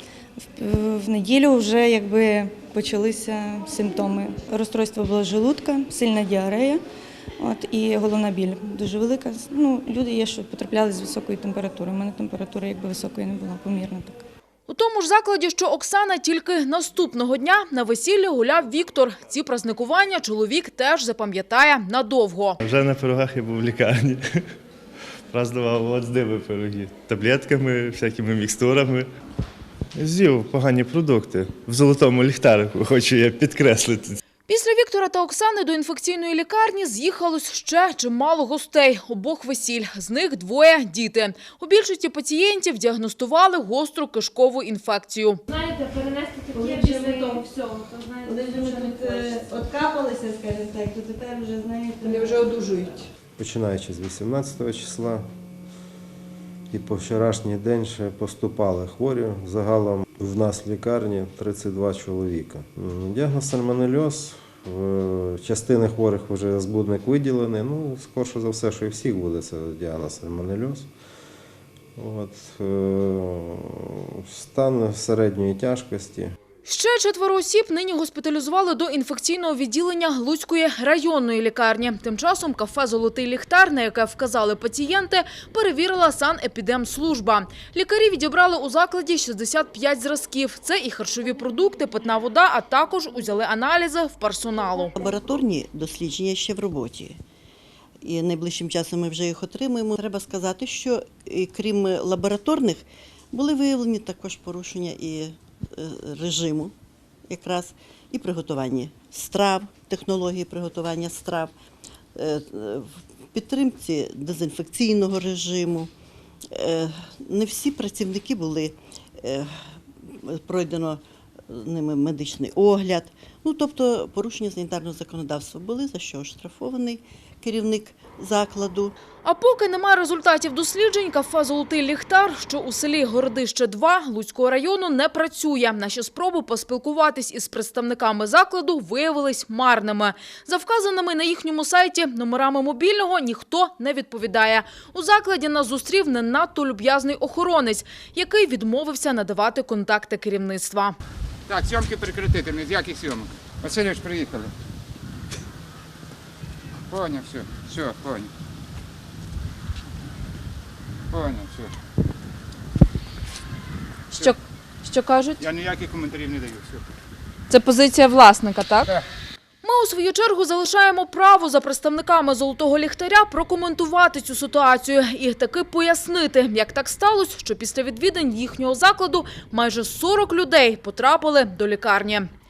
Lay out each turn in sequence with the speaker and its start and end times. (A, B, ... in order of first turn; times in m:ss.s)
0:00.6-0:06.8 A
0:01.0-0:03.3 B
0:04.0-0:06.7 B
0:07.4-0:14.1 A
0:07.6-0:08.3 B
0:09.1-0:13.9 B
0:14.7-0:22.6 C
0:22.6-0:24.2 D
0:25.3-0:29.1 D
0:29.9-0:34.2 D
0:34.5-0:45.4 C
0:45.5-0:49.3 E
0:46.5-0:47.4 B
0:48.3-0:52.4 B
0:52.0-0:53.0 E
0:53.4-0:55.3 F
0:56.7-1:10.9 F
1:12.0-1:16.4 F
1:16.6-1:34.9 C
1:35.0-1:37.2 G
1:38.0-1:46.7 G
1:47.3-1:51.5 G
1:52.2-1:55.9 G
1:56.5-1:59.5 G
2:00.0-2:08.9 G
2:09.2-2:31.0 C
2:31.5-2:34.5 H
2:36.9-2:38.3 H
2:41.1-2:41.7 H
2:44.1-2:45.4 C
2:45.4-2:46.8 H
2:47.5-2:49.0 C
2:49.6-3:02.3 C